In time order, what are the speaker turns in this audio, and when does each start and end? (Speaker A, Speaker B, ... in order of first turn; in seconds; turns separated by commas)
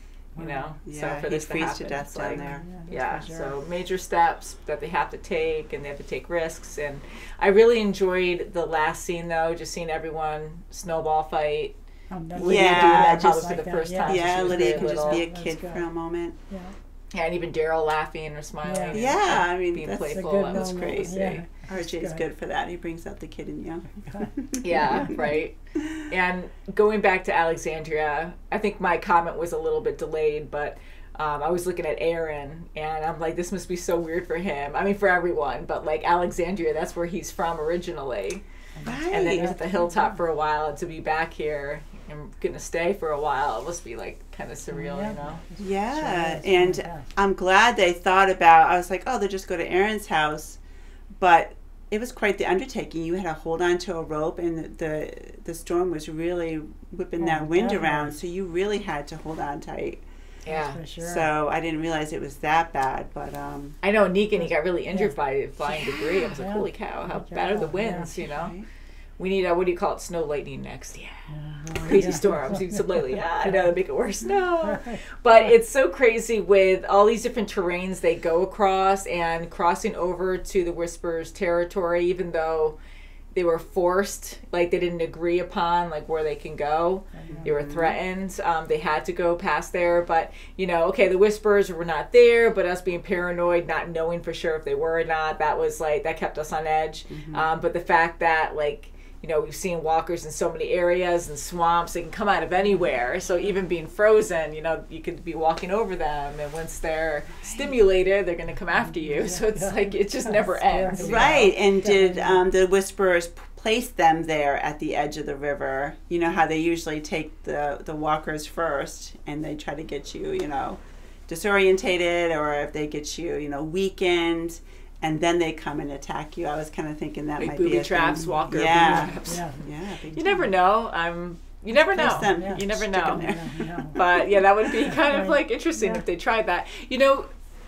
Speaker A: 0.3-0.7, Speaker B: 0.4-11.7, Speaker C: 0.8-2.7, Speaker A: 2.3-3.5, Speaker A: 12.1-15.9, Speaker B: 12.3-15.2, Speaker C: 12.4-16.4, Speaker A: 16.5-16.7, Speaker B: 17.1-21.4, Speaker A: 18.6-19.0, Speaker C: 18.9-25.2, Speaker A: 20.1-22.2, Speaker A: 24.1-25.1, Speaker B: 24.6-38.4, Speaker A: 38.8-40.2, Speaker C: 38.8-39.5, Speaker B: 39.1-45.4, Speaker A: 44.7-47.1, Speaker C: 45.6-50.6, Speaker C: 51.2-60.0, Speaker A: 57.2-58.2, Speaker B: 60.5-60.8, Speaker A: 60.5-61.3, Speaker C: 61.0-63.8, Speaker B: 63.8-68.5, Speaker A: 64.4-65.1, Speaker A: 65.8-68.1, Speaker C: 68.2-68.7, Speaker B: 69.2-71.2, Speaker A: 71.3-73.7, Speaker B: 71.8-82.8, Speaker A: 74.6-75.4, Speaker B: 83.3-111.5, Speaker A: 87.1-87.5, Speaker C: 87.3-88.0, Speaker C: 97.1-97.5, Speaker C: 107.4-107.7, Speaker A: 108.8-112.4, Speaker C: 111.0-130.5, Speaker B: 127.4-133.2, Speaker A: 128.8-129.6, Speaker C: 131.9-134.2, Speaker A: 132.0-134.0, Speaker B: 133.9-137.3, Speaker A: 134.9-136.0